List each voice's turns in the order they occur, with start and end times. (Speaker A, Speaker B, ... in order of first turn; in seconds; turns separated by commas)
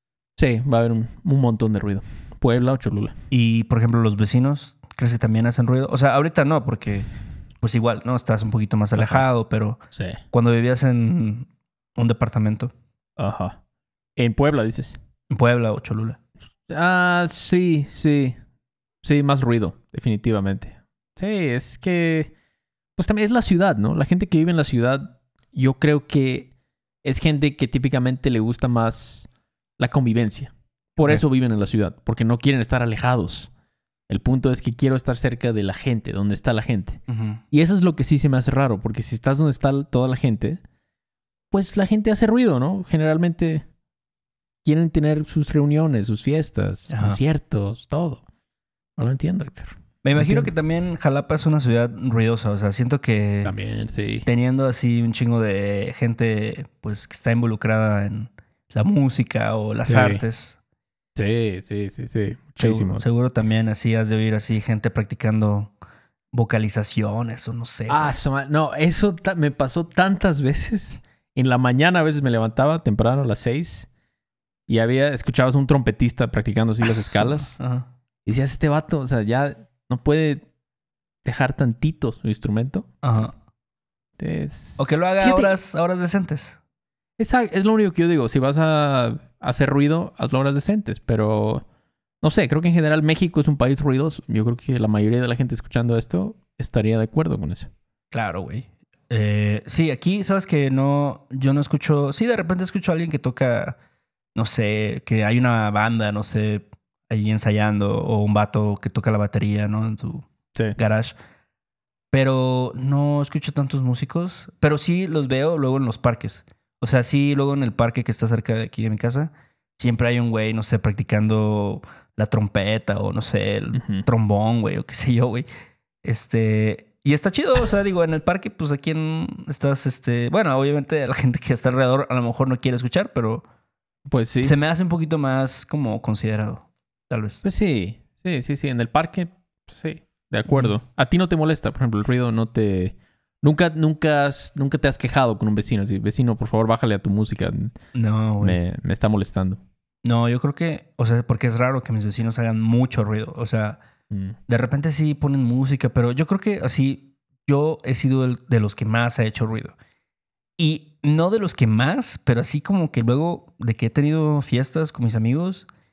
Speaker A: 0.4-3.1, Speaker B: 3.3-7.1, Speaker B: 7.6-9.8, Speaker A: 8.9-9.2, Speaker A: 9.9-10.2, Speaker B: 10.3-12.7, Speaker A: 13.2-13.6, Speaker A: 14.2-15.0, Speaker B: 15.3-16.2, Speaker A: 16.7-18.4, Speaker A: 19.0-22.3, Speaker A: 23.0-26.5, Speaker A: 27.0-33.5, Speaker A: 34.1-40.6, Speaker B: 37.1-37.4, Speaker A: 41.5-43.6, Speaker A: 44.6-48.2, Speaker B: 46.9-47.2, Speaker A: 49.0-50.5, Speaker B: 50.0-53.5, Speaker A: 53.4-54.3, Speaker B: 54.2-60.6, Speaker A: 59.9-60.2, Speaker A: 61.1-63.0, Speaker B: 62.6-65.7, Speaker B: 66.3-68.2, Speaker A: 67.9-73.9, Speaker A: 74.7-77.5, Speaker B: 76.8-77.8, Speaker A: 78.2-80.5, Speaker A: 81.2-83.2, Speaker B: 83.0-83.3, Speaker A: 84.2-85.5, Speaker B: 84.8-86.6, Speaker A: 87.2-91.6, Speaker A: 92.2-97.7, Speaker B: 98.1-103.8, Speaker B: 104.3-111.1, Speaker B: 112.1-125.5, Speaker A: 123.7-124.0, Speaker B: 126.0-133.4, Speaker A: 134.1-134.6, Speaker B: 134.4-137.4, Speaker A: 137.4-147.8, Speaker B: 147.9-148.6, Speaker A: 148.4-149.6, Speaker B: 150.0-153.8, Speaker A: 154.1-154.4, Speaker B: 154.5-159.7, Speaker B: 160.6-165.7